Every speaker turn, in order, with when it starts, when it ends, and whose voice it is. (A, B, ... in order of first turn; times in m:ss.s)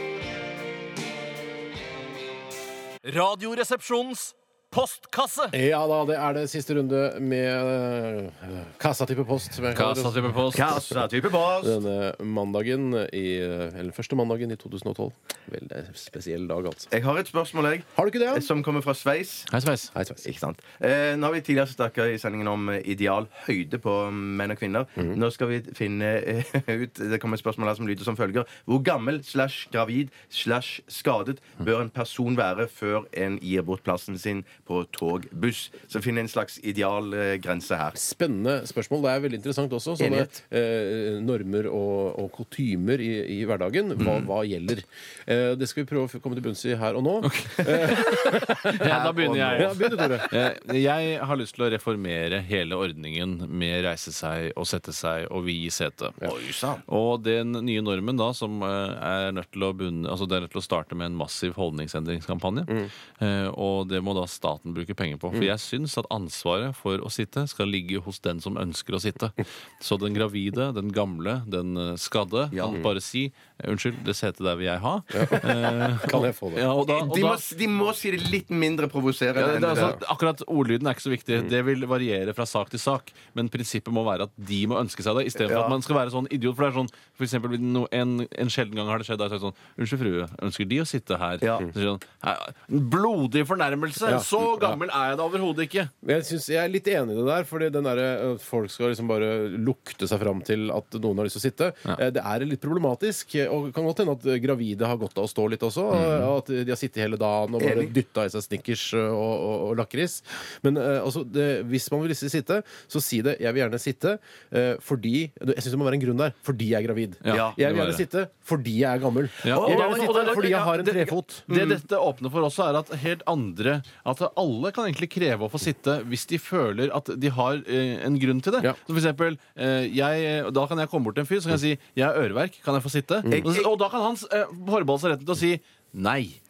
0:03.0-0:05.5 A
0:05.5-0:10.3 B
0:09.7-0:10.9 A
0:10.5-0:11.8 C
0:11.6-0:16.9 B
0:16.9-0:19.5 C
0:18.0-0:18.5 B
0:19.5-0:19.9 A
0:20.0-0:20.2 B
0:20.2-0:38.0 C
0:37.9-0:50.3 B
0:40.0-0:40.4 C
0:44.0-0:44.3 C
0:47.2-0:56.2 A
0:47.9-0:50.3 C
0:56.2-0:56.8 C
0:56.9-1:17.4 A
1:12.5-1:12.8 C
1:15.1-1:16.7 B
1:16.9-1:20.0 C
1:19.4-1:35.9 A
1:25.4-1:25.8 C
1:31.4-1:31.7 C
1:34.1-1:34.8 B
1:36.0-2:01.5 B
1:46.0-1:46.3 A
1:47.6-1:47.9 C
1:57.2-1:58.0 A
1:57.3-1:57.6 C
1:59.4-2:16.4 A
1:59.4-2:00.7 C
2:01.5-2:01.8 C
2:13.2-2:13.5 B
2:13.3-2:13.8 C